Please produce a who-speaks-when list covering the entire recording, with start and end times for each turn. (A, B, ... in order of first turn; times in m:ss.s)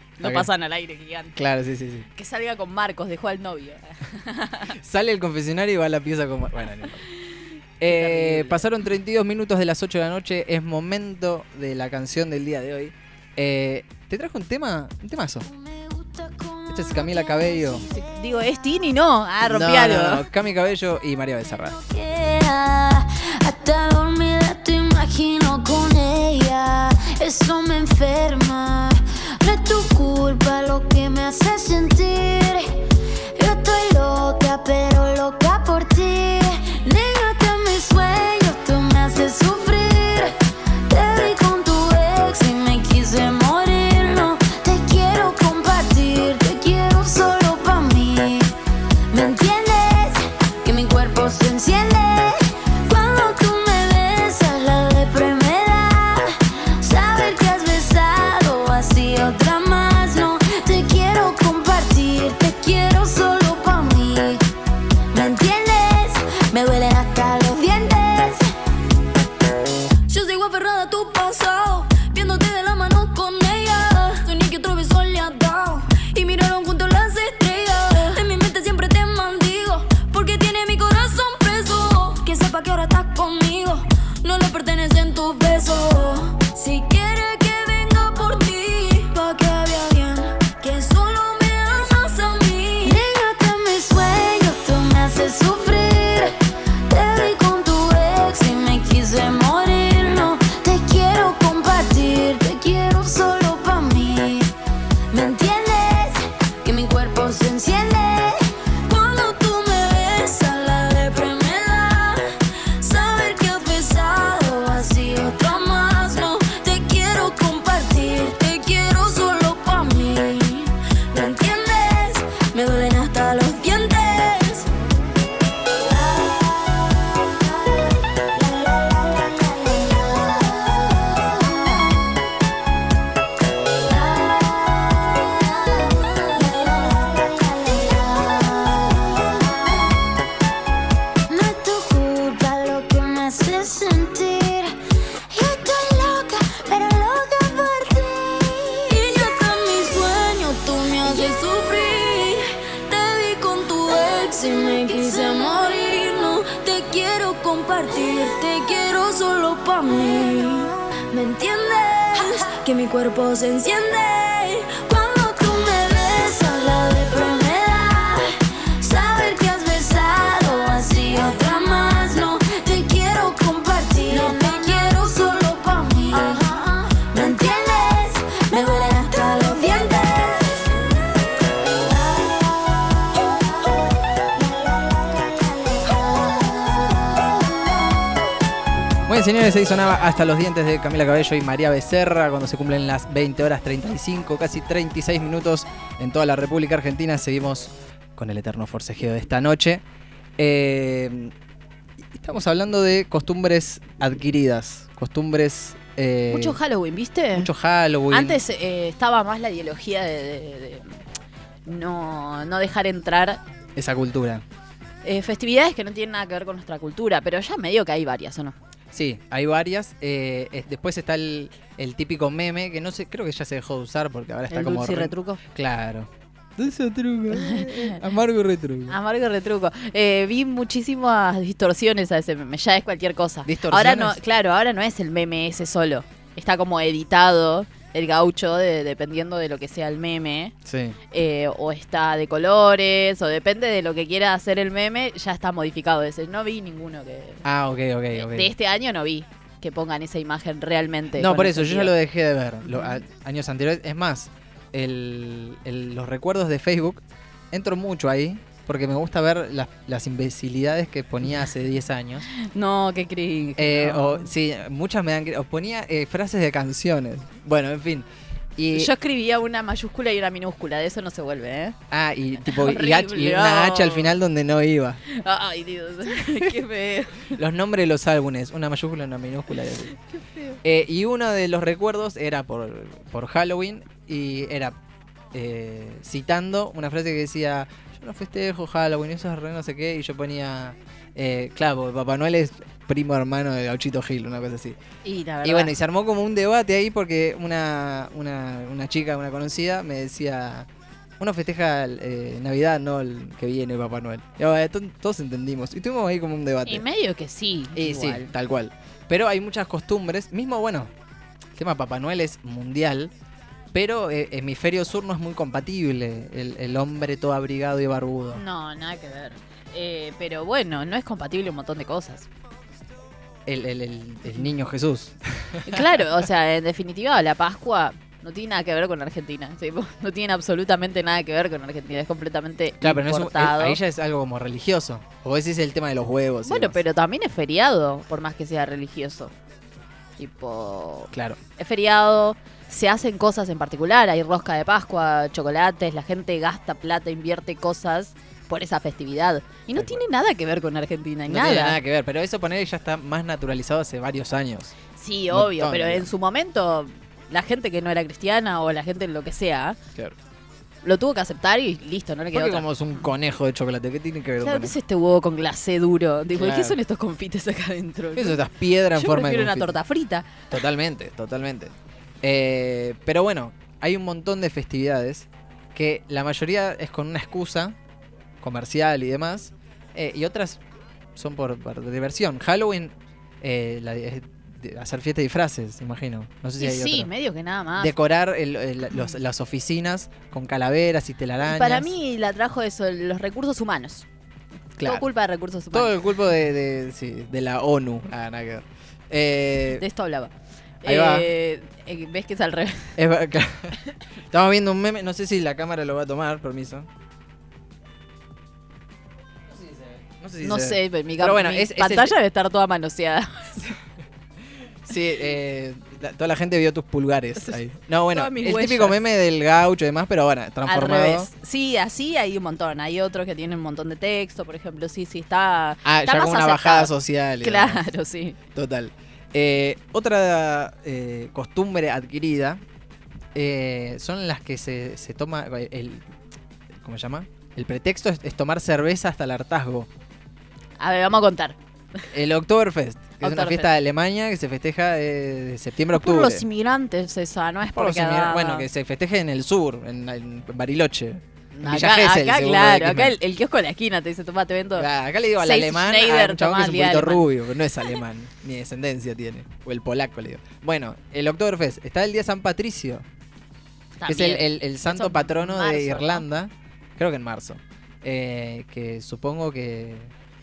0:00.2-0:01.4 A
0:00.2-0:00.5 B
0:01.4-0:02.1 B
0:02.2-0:04.8 A
0:04.7-0:07.1 B
0:07.8-0:15.5 B
0:07.8-0:08.7 A
0:15.4-0:18.0 C
0:16.7-0:17.8 B
0:17.9-0:20.3 A
0:19.4-0:21.8 B
0:21.7-0:48.6 C
0:49.1-1:04.4 C
1:05.1-1:08.5 C
1:10.1-1:44.5 C
1:45.1-2:04.7 C
2:05.7-2:12.1 C
2:13.8-2:20.0 C
2:21.3-2:24.8 C
2:25.3-3:00.9 C
3:01.6-3:03.8 C
3:04.4-3:08.0 C
3:09.1-3:19.8 B
3:20.4-3:21.3 B
3:22.1-3:26.6 B
3:26.3-3:27.5 A
3:27.4-3:28.4 B
3:28.1-3:30.9 A
3:31.7-3:33.4 A
3:33.8-3:34.4 B
3:35.0-3:38.6 A
3:38.9-3:49.0 B
3:44.5-3:45.4 A
3:47.3-3:48.0 A
3:48.9-4:00.6 A
3:53.4-3:54.2 B
4:00.6-4:01.0 B
4:01.1-4:07.4 A
4:07.4-4:08.5 B
4:08.1-4:11.9 A
4:11.2-4:22.3 B
4:22.3-4:24.3 A
4:23.6-4:28.9 B
4:28.7-4:31.8 A
4:31.9-4:35.0 B
4:32.4-4:34.2 A
4:35.1-4:37.4 A
4:36.2-4:36.5 B
4:37.3-4:40.0 B
4:40.1-4:40.6 A
4:40.6-4:44.8 B
4:45.3-4:54.8 B
4:55.0-4:55.7 A
4:55.4-5:00.7 B
5:01.2-5:06.8 B
5:06.6-5:08.3 A
5:07.8-5:10.9 B
5:11.6-5:13.1 B
5:13.7-5:18.4 B
5:18.3-5:22.3 A
5:23.5-5:26.0 B
5:25.7-5:33.8 A
5:32.8-5:36.8 B
5:36.5-5:39.3 A
5:40.2-5:51.8 A
5:41.1-5:41.4 B
5:49.8-5:50.0 B
5:51.3-5:54.8 B
5:55.0-5:59.8 A
5:55.3-5:56.1 B
6:00.8-6:02.7 A
6:02.3-6:04.8 B
6:04.4-6:08.4 A
6:06.4-6:06.8 B
6:08.2-6:09.8 B
6:08.9-6:10.5 A
6:10.5-6:17.8 B
6:18.4-6:20.6 B
6:21.2-6:27.1 B
6:26.6-6:27.9 A
6:27.8-6:31.9 B
6:31.4-6:34.1 A
6:34.8-6:35.1 B
6:34.8-6:36.0 A
6:35.7-6:39.8 B
6:39.8-6:43.0 A
6:40.9-6:41.3 B
6:43.0-6:43.8 B
6:44.3-6:46.9 B
6:49.6-6:52.1 B
6:50.4-6:53.8 A
6:54.8-7:01.3 B
6:58.1-6:59.0 A
7:00.6-7:08.4 A
7:05.8-7:07.8 B
7:08.5-7:12.6 B
7:13.3-7:16.1 B
7:16.7-7:19.9 B
7:20.8-7:21.6 A
7:22.1-7:26.4 B
7:23.2-7:23.7 A
7:25.9-7:28.7 A
7:27.7-7:33.2 B
7:31.5-7:37.3 A
7:34.8-7:43.0 B
7:44.0-7:46.2 A
7:44.1-7:50.1 B